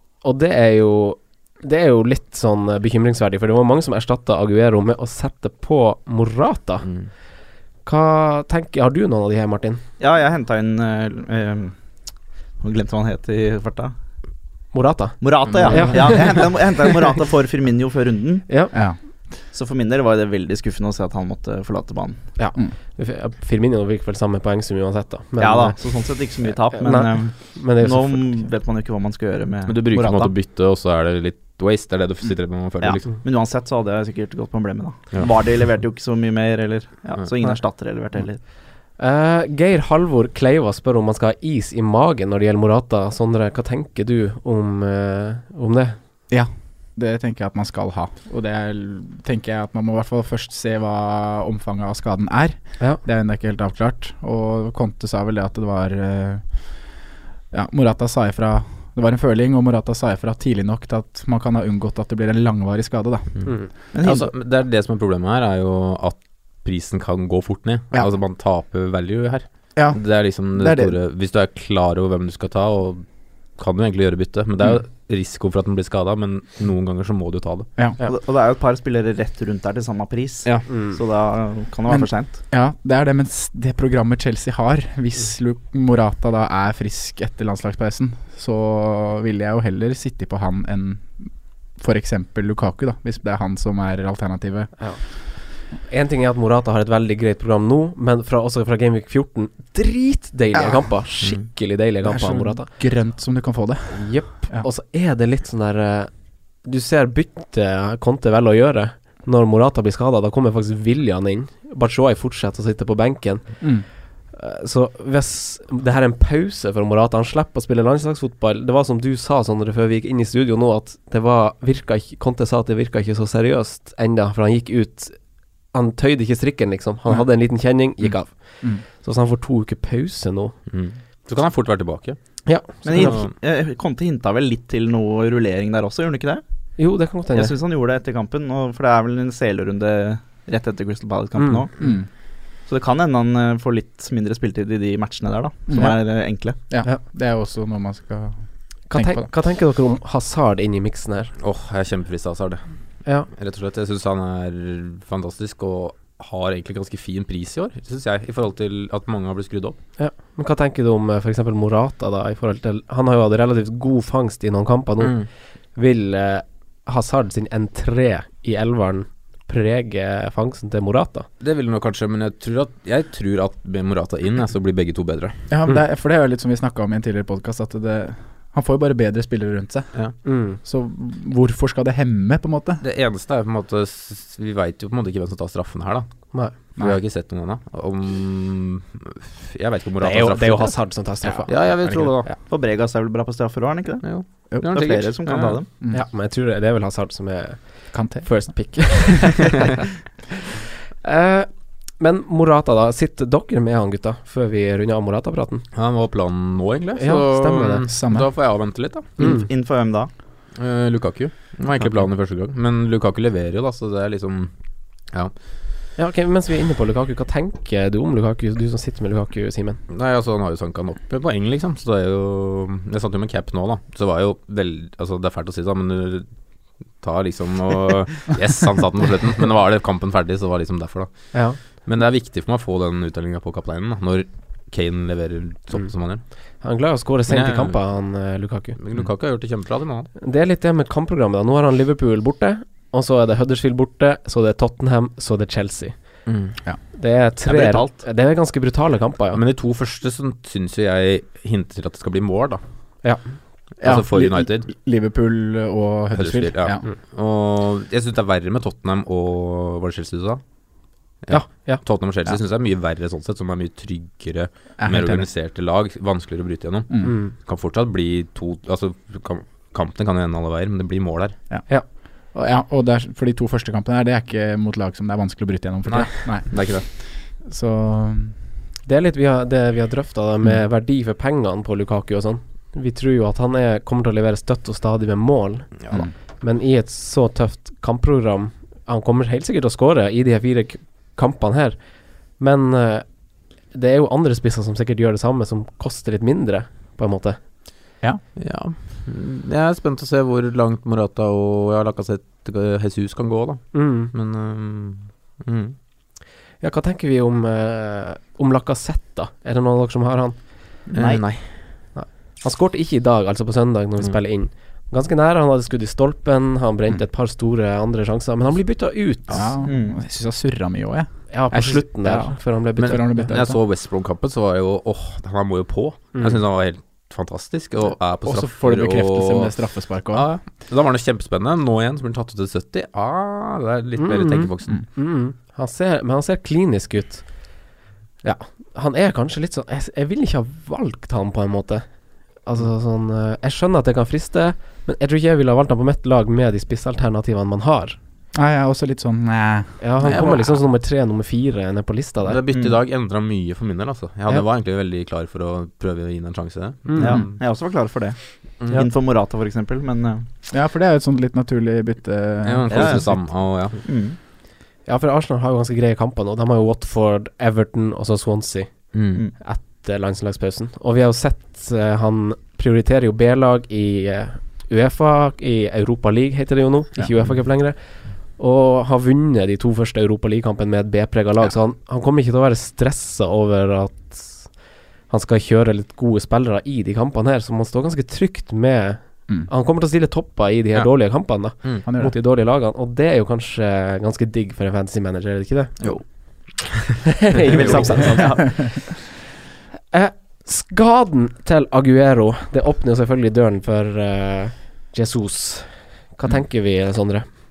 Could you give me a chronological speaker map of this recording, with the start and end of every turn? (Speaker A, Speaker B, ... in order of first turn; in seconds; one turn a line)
Speaker A: 0.2-6.9
Speaker B: 6.8-7.1
Speaker A: 7.8-9.8
Speaker C: 10.0-11.8
Speaker C: 12.6-13.9
Speaker A: 14.7-16.5
Speaker C: 15.2-18.7
Speaker A: 18.5-18.7
Speaker D: 18.7-19.0
Speaker C: 19.5-22.3
Speaker A: 22.4-25.8
Speaker C: 25.4-30.3
Speaker A: 26.6-28.4
Speaker B: 29.7-33.1
Speaker C: 32.8-38.4
Speaker B: 35.1-35.6
Speaker A: 39.0-46.0
Speaker D: 46.3-56.9
Speaker D: 57.5-63.4
Speaker C: 63.9-64.3
Speaker B: 64.0-73.0
Speaker D: 69.8-71.0
Speaker B: 73.6-77.7
Speaker C: 78.0-82.4
Speaker D: 81.9-94.7
Speaker A: 95.5-102.7
Speaker D: 100.5-100.8
Speaker D: 102.0-104.7
Speaker A: 103.9-106.1
Speaker A: 106.6-113.6
Speaker D: 113.6-113.9
Speaker A: 114.3-125.2
Speaker A: 125.7-130.6
Speaker B: 130.7-132.2
Speaker A: 132.5-133.1
Speaker C: 132.8-136.4
Speaker B: 132.9-133.3
Speaker A: 136.8-137.5
Speaker C: 137.3-141.8
Speaker A: 141.4-141.6
Speaker D: 141.8-142.1
Speaker C: 142.6-146.6
Speaker D: 145.7-148.4
Speaker A: 148.9-151.3
Speaker D: 148.9-149.3
Speaker B: 151.4-152.6
Speaker B: 153.3-159.8
Speaker A: 160.0-171.3
Speaker B: 165.0-165.3
Speaker B: 171.4-175.4
Speaker D: 175.5-182.8
Speaker A: 180.2-180.6
Speaker B: 182.8-190.9
Speaker A: 190.0-191.7
Speaker D: 191.3-192.1
Speaker B: 191.5-192.3
Speaker C: 192.4-194.1
Speaker B: 194.0-195.6
Speaker C: 194.6-195.7
Speaker A: 195.9-199.8
Speaker D: 197.9-199.0
Speaker A: 201.0-205.7
Speaker B: 205.7-209.3
Speaker A: 207.0-207.8
Speaker D: 207.9-208.3
Speaker C: 209.2-210.1
Speaker A: 209.2-209.4
Speaker B: 210.6-214.5
Speaker A: 216.0-219.8
Speaker B: 219.9-226.3
Speaker B: 227.0-236.2
Speaker A: 231.3-231.6
Speaker A: 236.6-238.8
Speaker B: 237.3-237.8
Speaker B: 238.8-240.1
Speaker A: 240.2-246.0
Speaker B: 246.3-246.6
Speaker A: 246.9-249.4
Speaker C: 247.5-247.9
Speaker B: 249.3-252.6
Speaker B: 253.8-254.7
Speaker D: 253.8-256.9
Speaker B: 256.1-260.4
Speaker B: 261.2-271.4
Speaker A: 261.3-261.8
Speaker D: 264.8-265.3
Speaker D: 266.9-267.2
Speaker A: 267.0-267.3
Speaker D: 271.5-278.4
Speaker B: 275.9-276.9
Speaker A: 278.9-285.8
Speaker A: 286.4-297.4
Speaker B: 298.4-305.8
Speaker A: 303.7-304.1
Speaker A: 306.6-310.4
Speaker C: 310.9-311.2
Speaker B: 310.9-311.5
Speaker A: 311.9-319.5
Speaker D: 319.3-323.6
Speaker C: 319.6-320.0
Speaker A: 321.3-323.2
Speaker B: 322.8-329.5
Speaker D: 328.2-330.3
Speaker B: 330.1-334.8
Speaker A: 334.0-337.3
Speaker A: 338.2-348.0
Speaker D: 348.4-350.3
Speaker A: 349.8-352.4
Speaker B: 350.0-350.6
Speaker B: 352.3-357.3
Speaker A: 356.9-357.2
Speaker C: 357.0-360.3
Speaker D: 360.5-363.2
Speaker B: 362.4-363.8
Speaker C: 362.7-363.3
Speaker C: 363.8-364.2
Speaker A: 364.9-377.8
Speaker B: 368.9-369.2
Speaker A: 378.3-384.5
Speaker A: 385.1-395.8
Speaker B: 391.4-391.8
Speaker D: 391.9-392.2
Speaker A: 397.2-398.8
Speaker C: 397.5-398.4
Speaker B: 397.6-398.0
Speaker D: 398.2-398.8
Speaker A: 399.9-407.3